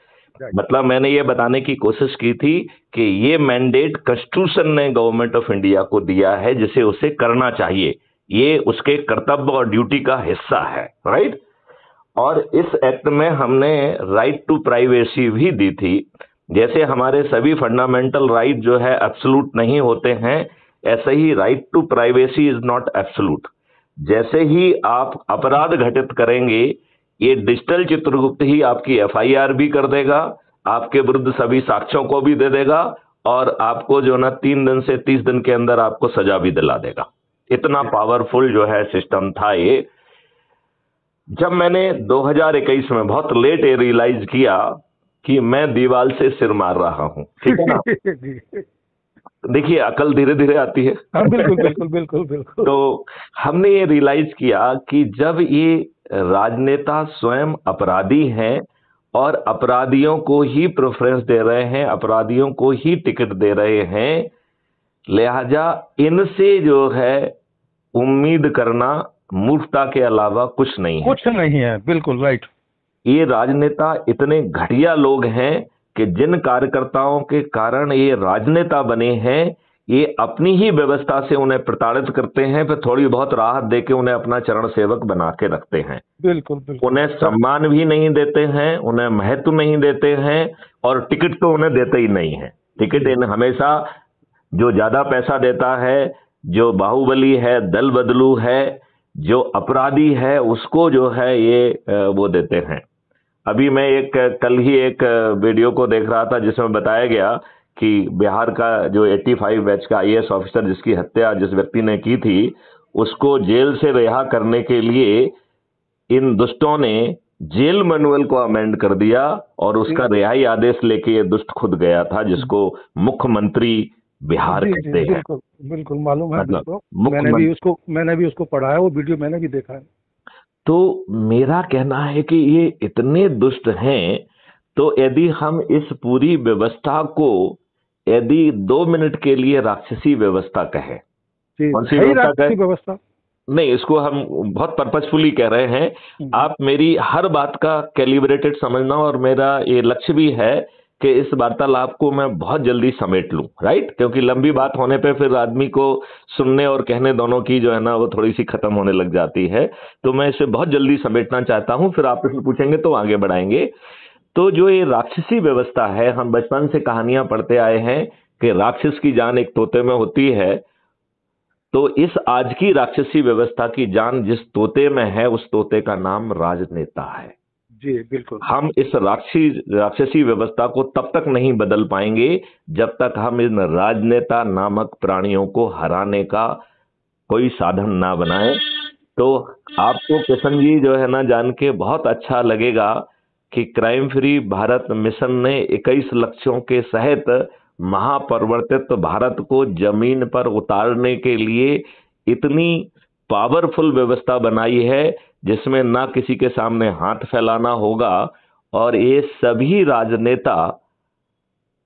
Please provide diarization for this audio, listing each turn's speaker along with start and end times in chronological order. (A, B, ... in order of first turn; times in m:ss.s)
0:00.5-0:11.4 A
0:12.2-0:23.5 A
0:24.0-0:39.8 A
0:41.4-0:47.8 A
0:47.4-0:48.6 B
0:49.5-0:51.6 A
0:51.1-0:52.7 B
0:52.6-0:58.6 A
0:59.1-1:04.3 A
1:05.1-1:07.3 A
1:07.9-1:11.2 A
1:11.0-1:12.5 B
1:13.0-1:26.0 A
1:26.2-1:27.3 B
1:26.8-1:33.9 A
1:32.9-1:33.2 B
1:34.5-1:42.8 A
1:43.5-1:55.3 A
1:56.1-2:05.2 A
2:04.5-2:09.9 B
2:06.4-2:07.5 A
2:10.6-2:21.0 A
2:21.6-2:23.0 B
2:21.7-2:22.5 A
2:23.5-2:43.7 A
2:44.3-2:50.6 A
2:51.7-2:57.3 A
2:57.8-2:58.4 B
2:58.4-3:06.6 A
3:07.3-3:08.6 A
3:09.2-3:30.8 A